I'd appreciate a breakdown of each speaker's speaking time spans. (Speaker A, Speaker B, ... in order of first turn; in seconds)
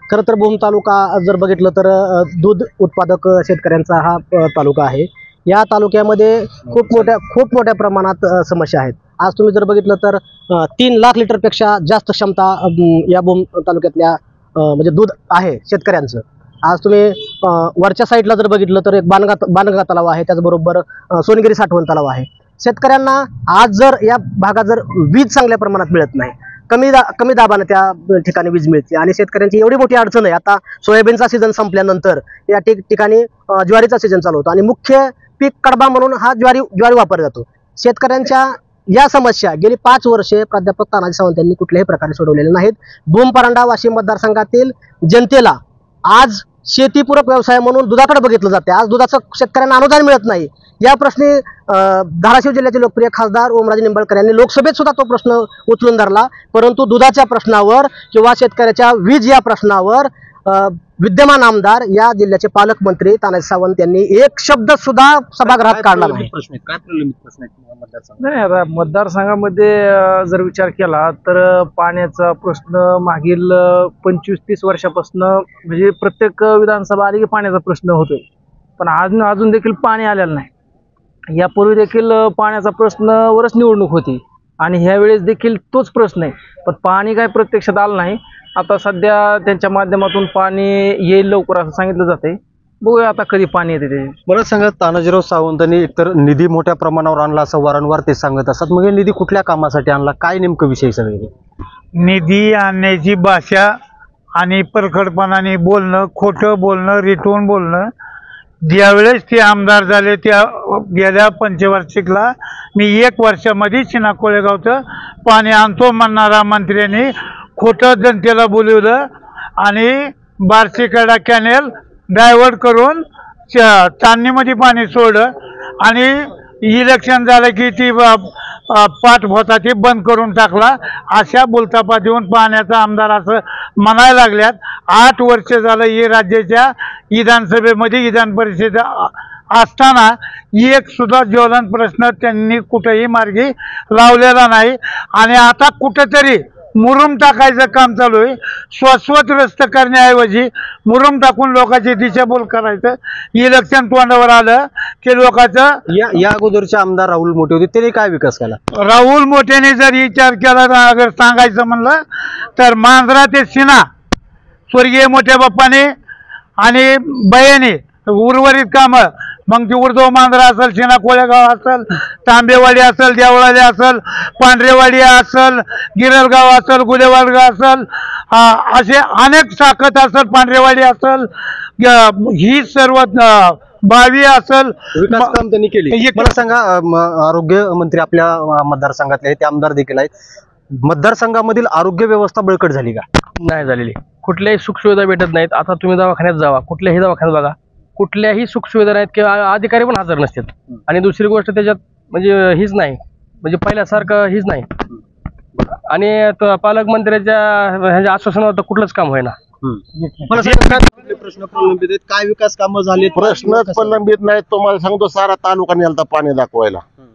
Speaker A: 0.1-66.3
Speaker B: 65.4-68.2, 94.3-101.3, 155.9-158.6, 184.9-190.1, 190.8-193.1, 209.6-214.0
Speaker C: 68.2-78.2, 78.8-80.5, 81.3-94.2
Speaker D: 102.0-103.7, 104.4-107.9, 108.7-119.0, 119.6-125.3, 125.8-155.7, 158.8-162.0, 162.6-163.8, 164.7-165.9, 166.6-181.3, 181.8-185.3, 185.9-186.3
Speaker E: 193.4-204.7, 205.9-209.4
Speaker F: 213.2-216.8